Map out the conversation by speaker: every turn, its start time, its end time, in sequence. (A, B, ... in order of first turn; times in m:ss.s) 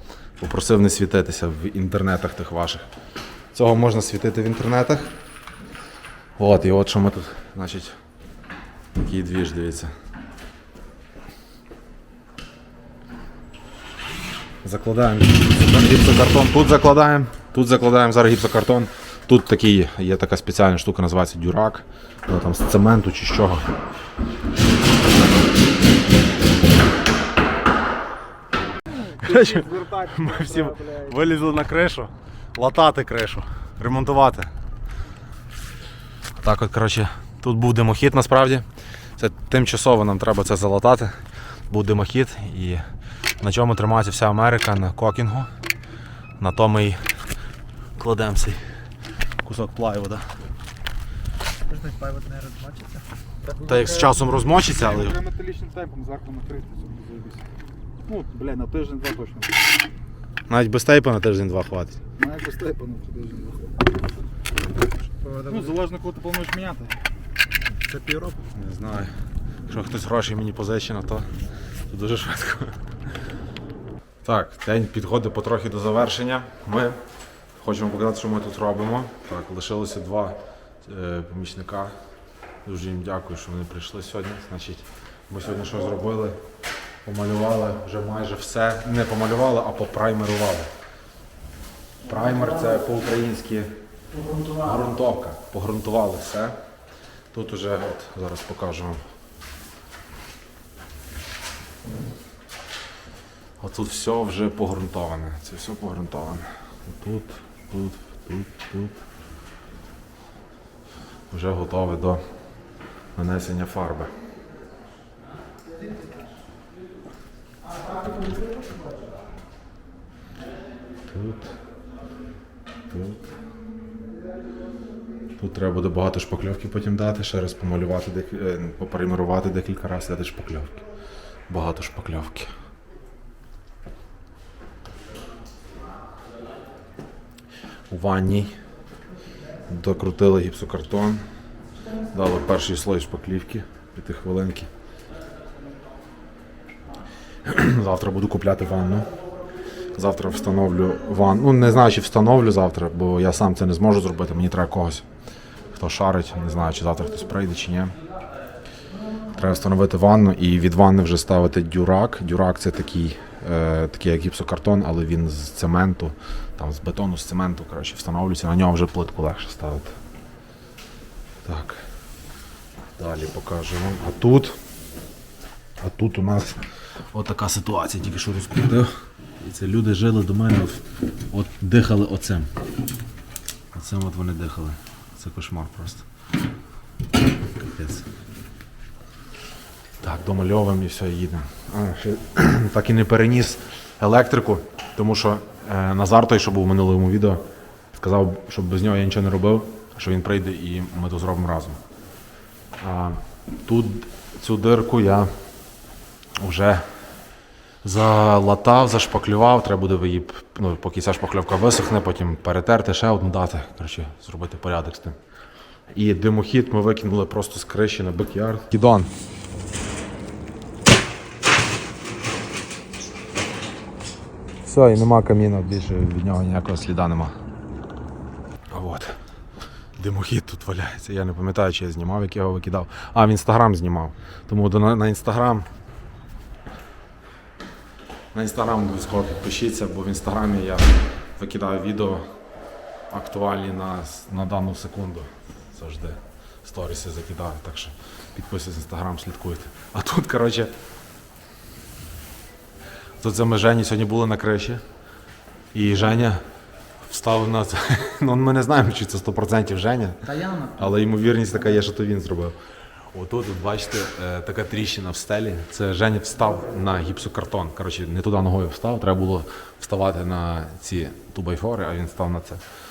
0:00.4-0:02.8 A
0:03.5-0:05.1 A
0:06.4-0:08.0 A
0:09.0-0:09.9 A
0:14.6-0:23.7 A
0:28.9-0:31.4 B
0:29.2-0:34.5 A
0:36.4-0:42.8 A
0:43.4-0:45.5 A
0:46.4-0:47.2 A
0:48.0-0:48.6 A
0:49.4-0:50.3 A
0:51.6-0:53.0 C
0:53.5-0:57.5 B
0:53.6-0:55.2 A
0:58.0-0:59.6 B
1:00.5-1:02.0 A
1:02.2-1:03.9 B
1:05.2-1:05.6 C
1:05.4-1:07.0 B
1:07.7-1:08.4 B
1:08.5-1:09.1 A
1:09.7-1:11.3 A
1:11.9-1:12.8 A
1:14.2-1:17.0 A
1:17.6-1:21.9 A
1:22.6-1:26.4 A
1:27.0-1:30.7 A
1:32.0-1:33.1 C
1:32.0-1:33.7 A
1:34.1-1:34.9 C
1:34.6-1:36.6 A
1:37.3-1:39.0 A
1:43.6-1:49.0 A
1:51.3-1:52.2 A
1:53.2-1:54.1 A
1:57.9-1:58.4 C
2:01.1-2:01.5 A
2:02.9-2:03.2 A
2:05.4-2:10.8 A
2:11.5-2:12.5 A
2:17.9-2:18.5 A
2:19.7-2:21.2 A
2:22.1-2:24.7 A
2:27.4-2:29.1 A
2:29.9-2:35.0 A
2:35.7-2:37.9 A
2:39.3-2:50.0 A
2:51.4-2:51.8 A
2:53.0-2:54.6 A
2:55.8-3:02.5 A
3:03.7-3:06.0 A
3:07.7-3:08.1 A
3:10.0-3:17.4 A
3:18.0-3:21.8 A
3:22.8-3:25.3 A
3:26.4-3:26.9 A
3:27.8-3:35.2 A
3:35.9-3:39.1 A
3:44.6-3:47.3 A
3:48.7-3:49.2 A
3:50.0-3:55.7 A
3:58.3-4:02.2 A
4:03.1-4:10.7 A
4:13.2-4:14.8 A
4:15.7-4:16.4 A
4:17.0-4:22.6 A
4:20.2-4:21.8 C
4:23.1-4:32.6 A